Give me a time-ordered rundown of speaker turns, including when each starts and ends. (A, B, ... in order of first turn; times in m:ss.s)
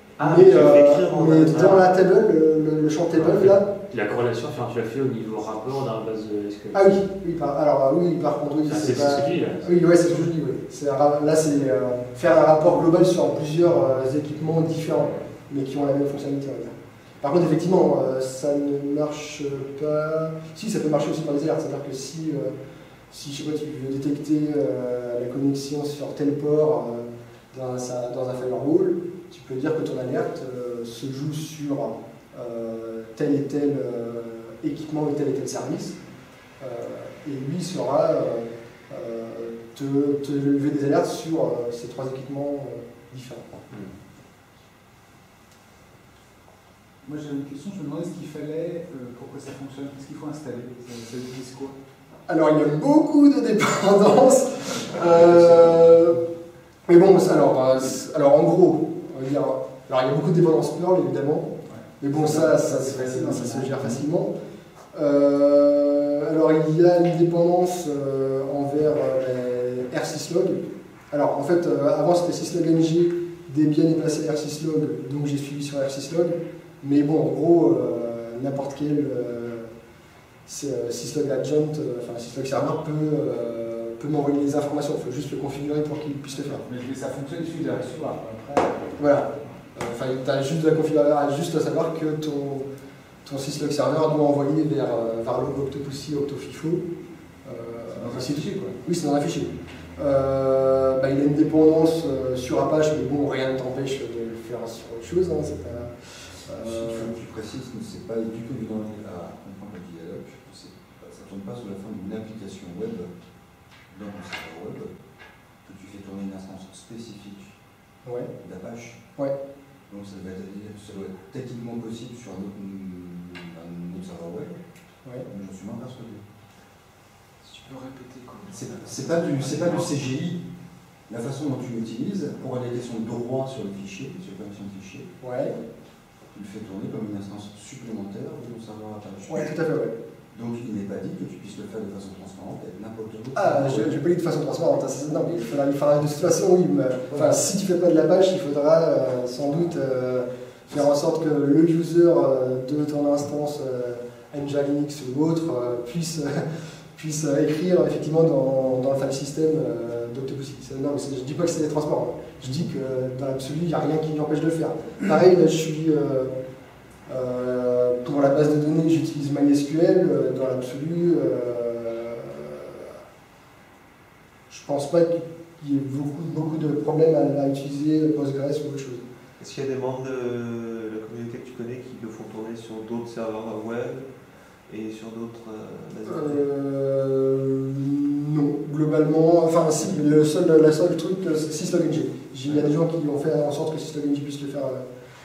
0:00.2-0:01.9 A
0:00.2-0:03.7 B
0:03.1-0:07.0 C
0:06.7-0:22.5 B
0:08.6-0:09.8 C
0:23.1-0:36.0 B
0:36.6-0:43.4 B
0:43.7-0:43.9 C
0:47.0-0:51.7 D
0:52.3-0:56.2 B
0:54.8-0:55.8 D
0:56.9-1:04.3 B
1:01.7-1:04.0 D
1:04.9-1:19.7 B
1:20.5-1:26.6 B
1:26.3-1:29.5 D
1:29.0-1:32.7 B
1:33.2-1:36.8 B
1:37.4-1:47.1 B
1:37.9-1:38.8 D
1:46.6-1:53.1 E
1:53.9-1:54.9 E
1:55.6-1:57.6 E
1:58.0-1:58.3 B
1:58.4-1:59.0 E
1:59.9-2:04.5 E
2:05.3-2:06.2 E
2:07.4-2:10.0 D
2:08.5-2:10.4 E
2:11.1-2:15.1 E
2:15.2-2:15.6 B
2:16.3-2:19.5 E
2:19.3-2:19.9 B
2:20.3-2:24.0 E
2:23.3-2:46.4 B
2:47.1-2:52.9 B
2:54.5-2:59.0 B
2:59.4-3:04.1 A
3:04.7-3:06.4 A
3:06.0-3:14.8 B